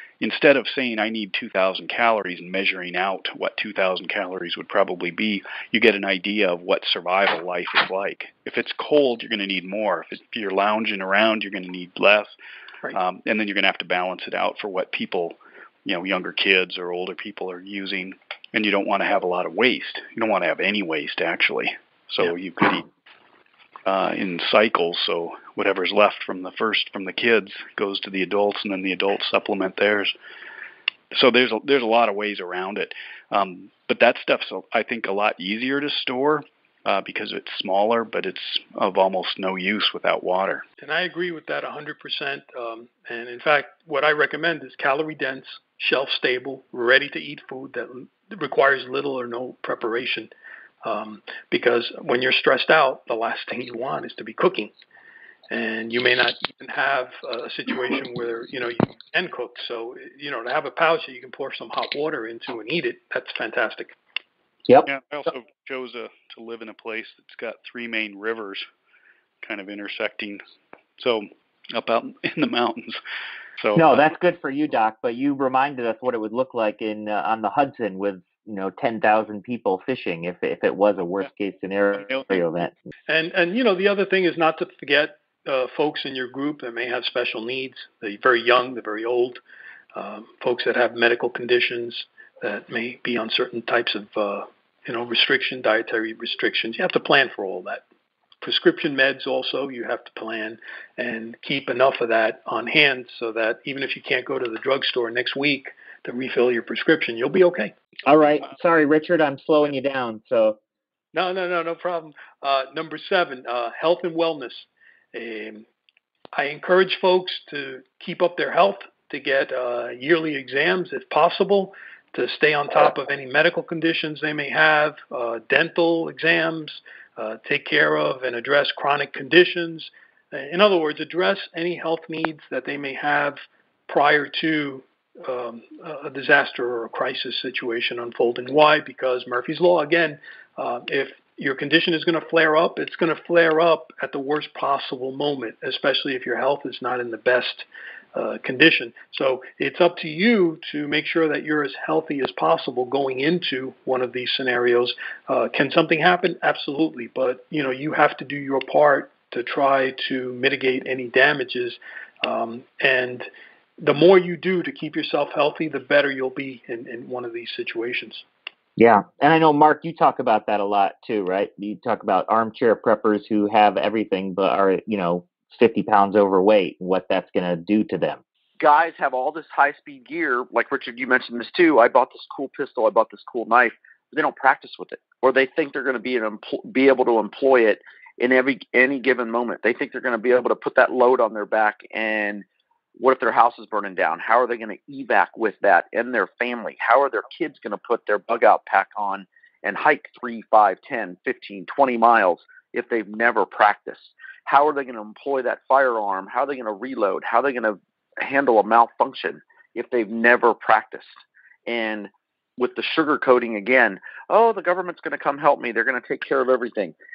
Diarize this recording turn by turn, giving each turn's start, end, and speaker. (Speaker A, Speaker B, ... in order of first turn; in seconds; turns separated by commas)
Speaker A: 0.2-12.4, Speaker A: 12.9-22.9, Speaker A: 23.9-30.1, Speaker A: 31.1-40.6, Speaker B: 40.8-50.3, Speaker B: 50.8-54.7, Speaker B: 55.5-64.0, Speaker A: 64.9-68.7, Speaker A: 69.4-70.4, Speaker A: 71.0-73.0, Speaker A: 73.6-73.9, Speaker C: 73.8-82.7, Speaker B: 83.1-89.4, Speaker B: 90.0-97.8, Speaker B: 98.4-107.7, Speaker C: 108.1-110.6, Speaker B: 111.1-115.7, Speaker B: 116.3-168.3, Speaker C: 168.8-178.2, Speaker D: 178.6-192.4, Speaker D: 193.0-211.1, Speaker D: 211.7-217.0